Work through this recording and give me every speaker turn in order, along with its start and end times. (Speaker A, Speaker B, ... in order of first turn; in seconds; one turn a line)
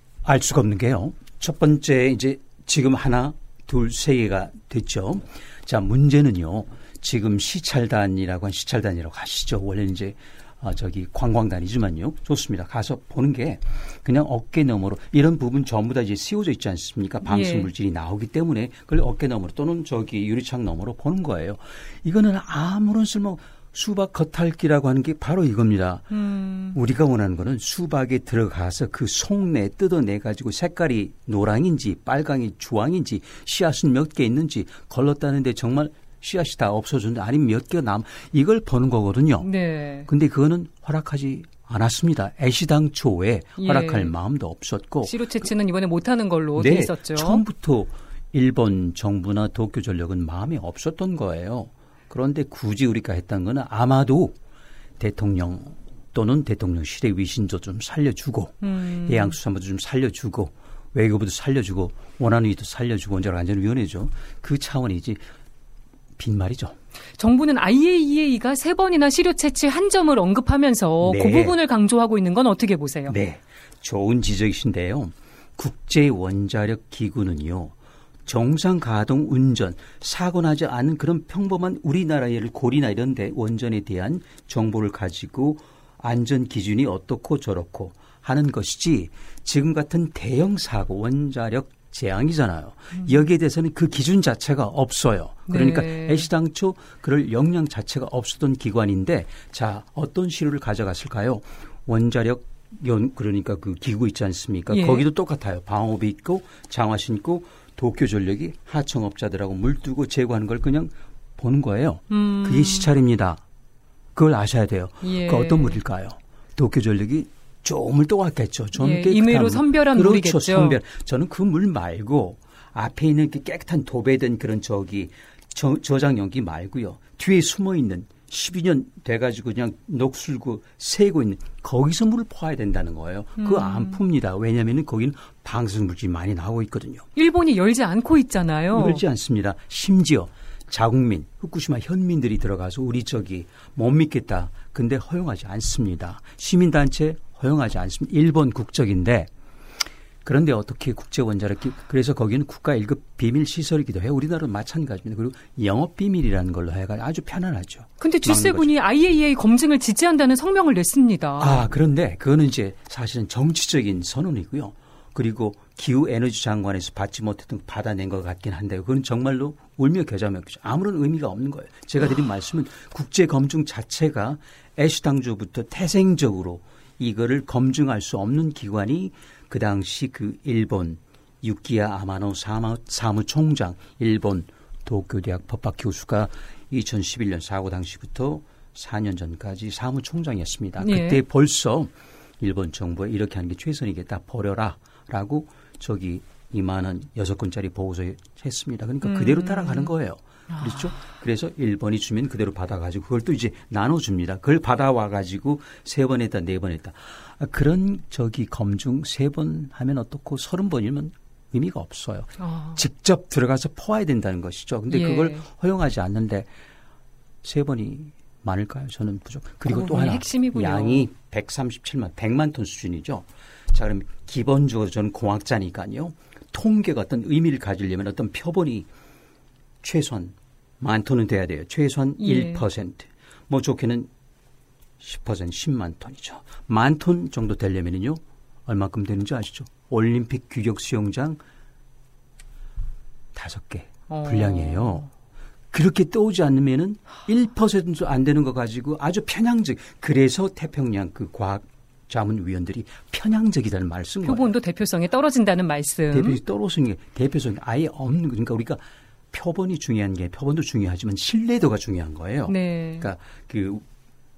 Speaker A: 0.2-26.2
Speaker B: 17.2-17.7
Speaker B: 26.1-26.8
Speaker A: 26.7-39.5
Speaker B: 39.4-40.1
Speaker A: 40.1-45.5
Speaker B: 43.6-44.1
Speaker B: 45.0-47.4
Speaker A: 46.6-54.4
Speaker A: 55.0-65.2
Speaker B: 58.6-59.4
Speaker A: 66.2-66.8
Speaker B: 67.2-73.1
Speaker A: 71.0-71.6
Speaker A: 73.1-77.8
Speaker A: 78.3-113.4
Speaker B: 95.5-96.3
Speaker B: 104.7-105.0
Speaker B: 112.1-112.9
Speaker A: 114.2-137.1
Speaker B: 115.0-115.8
Speaker B: 118.8-120.8
Speaker B: 133.4-134.0
Speaker B: 137.2-139.0
Speaker A: 138.7-149.3
Speaker A: 150.2-158.7
Speaker B: 158.0-161.6
Speaker A: 161.4-216.5
Speaker B: 190.8-191.2
Speaker B: 199.0-199.9
Speaker B: 200.5-200.8
Speaker B: 212.4-212.8
Speaker B: 214.9-215.4
Speaker A: 217.4-228.9
Speaker B: 219.7-221.1
Speaker A: 229.8-234.1
Speaker B: 232.2-232.6
Speaker A: 235.0-241.4
Speaker A: 243.3-245.1
Speaker B: 244.1-245.1
Speaker A: 245.7-254.5
Speaker B: 254.3-256.4
Speaker A: 256.1-263.8
Speaker B: 262.5-263.1